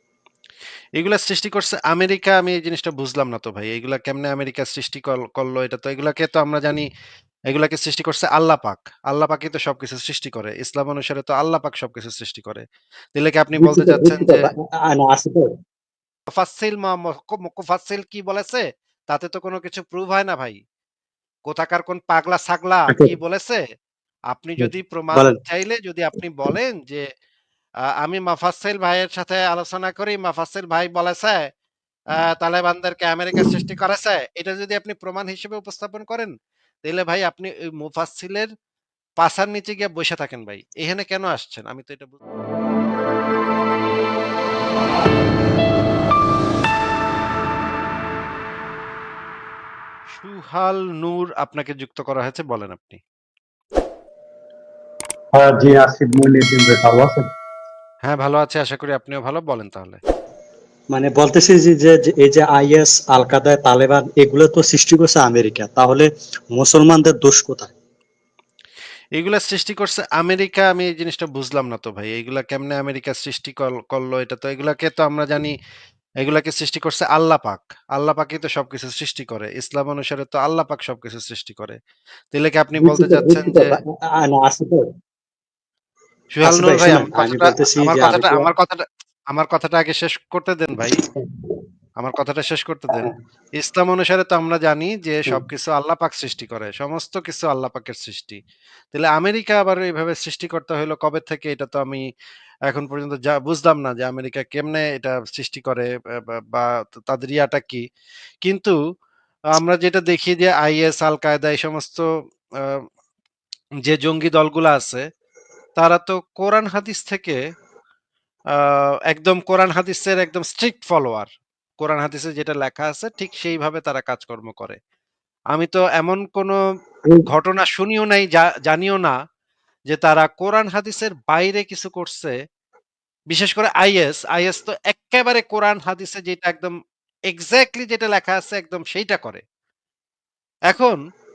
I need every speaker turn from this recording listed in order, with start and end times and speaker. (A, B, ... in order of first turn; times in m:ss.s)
0:01.0-0:06.9 A
0:07.5-0:14.5 A
0:13.5-0:15.5 B
0:16.3-0:20.6 A
0:21.5-0:23.6 A
0:24.3-0:27.0 A
0:24.6-0:25.4 B
0:27.9-0:31.5 A
0:32.2-0:36.3 A
0:36.8-0:38.5 A
0:39.2-0:42.2 A
0:50.2-0:53.0 A
0:55.3-0:57.3 C
0:58.0-1:00.0 A
1:00.9-1:07.7 B
1:09.2-1:15.6 A
1:16.2-1:21.8 A
1:22.3-1:23.8 A
1:22.8-1:24.8 B
1:26.3-1:31.0 A
1:26.4-1:28.5 B
1:30.8-1:31.1 B
1:32.0-1:38.4 A
1:38.9-1:42.0 A
1:42.7-1:47.8 A
1:48.4-1:48.7 A
1:49.5-1:52.0 A
1:53.8-1:55.0 A
1:55.8-1:57.4 A
1:58.5-2:04.8 A
2:05.5-2:06.6 A
2:07.3-2:09.1 A
2:09.9-2:12.3 A
2:13.3-2:16.7 A
2:17.3-2:19.4 A
2:20.7-2:21.0 A